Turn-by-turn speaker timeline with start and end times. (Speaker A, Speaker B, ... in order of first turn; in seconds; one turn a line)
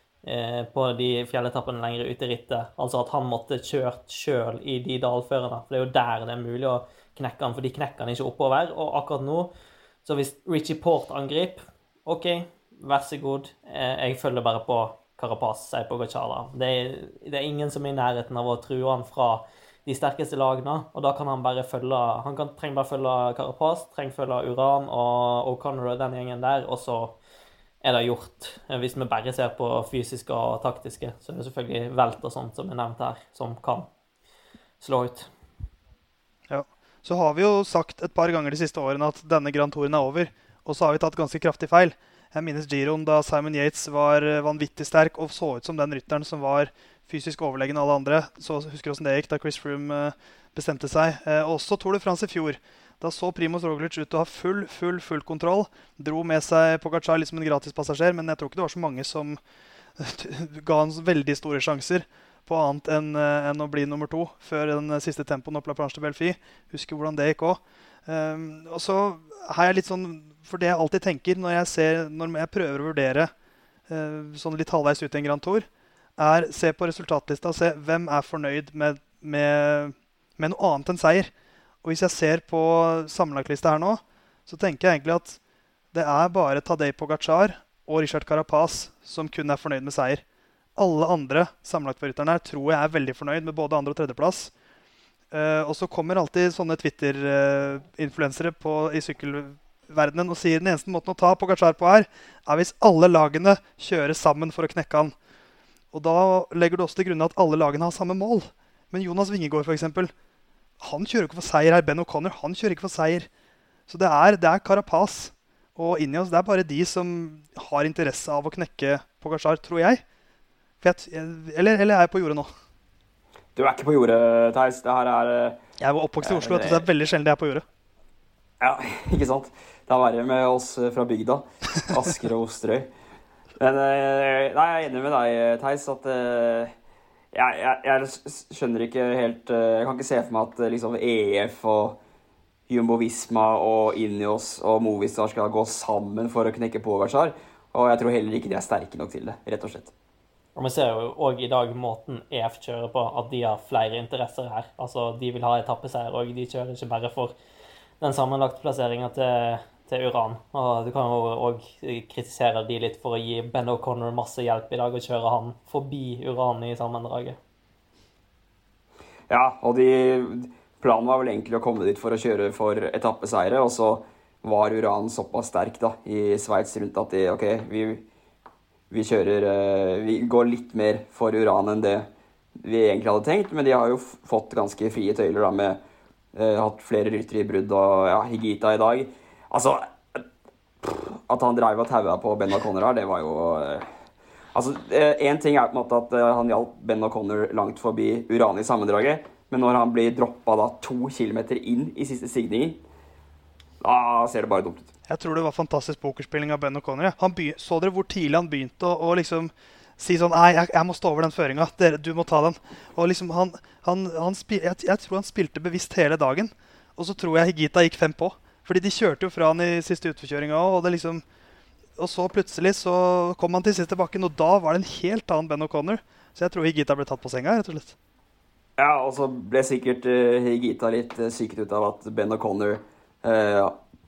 Speaker A: 0.2-9.5
Speaker A: 10.1-27.2
Speaker A: 27.8-33.9
Speaker A: 34.8-35.3
Speaker B: 36.5-59.4
Speaker B: 60.0-73.3
Speaker B: 73.9-81.3
Speaker B: 81.8-85.4
Speaker B: 85.9-90.2
Speaker B: 90.8-94.5
Speaker B: 95.3-105.2
Speaker B: 105.9-110.1
Speaker B: 110.8-113.3
Speaker B: 113.9-120.0
Speaker B: 120.8-122.5
Speaker C: 123.5-125.6
Speaker B: 125.8-127.7
Speaker C: 126.2-126.9
Speaker C: 128.6-132.9
Speaker C: 133.6-136.7
Speaker C: 137.3-142.0
Speaker C: 142.7-149.9
Speaker A: 150.6-157.3
Speaker A: 158.0-167.4
Speaker C: 169.3-178.0
Speaker C: 178.9-185.8
Speaker C: 186.3-190.2
Speaker C: 190.8-193.9
Speaker C: 194.5-202.8
Speaker C: 203.8-204.9
Speaker B: 205.1-221.2
Speaker B: 222.0-227.9
Speaker C: 228.8-233.8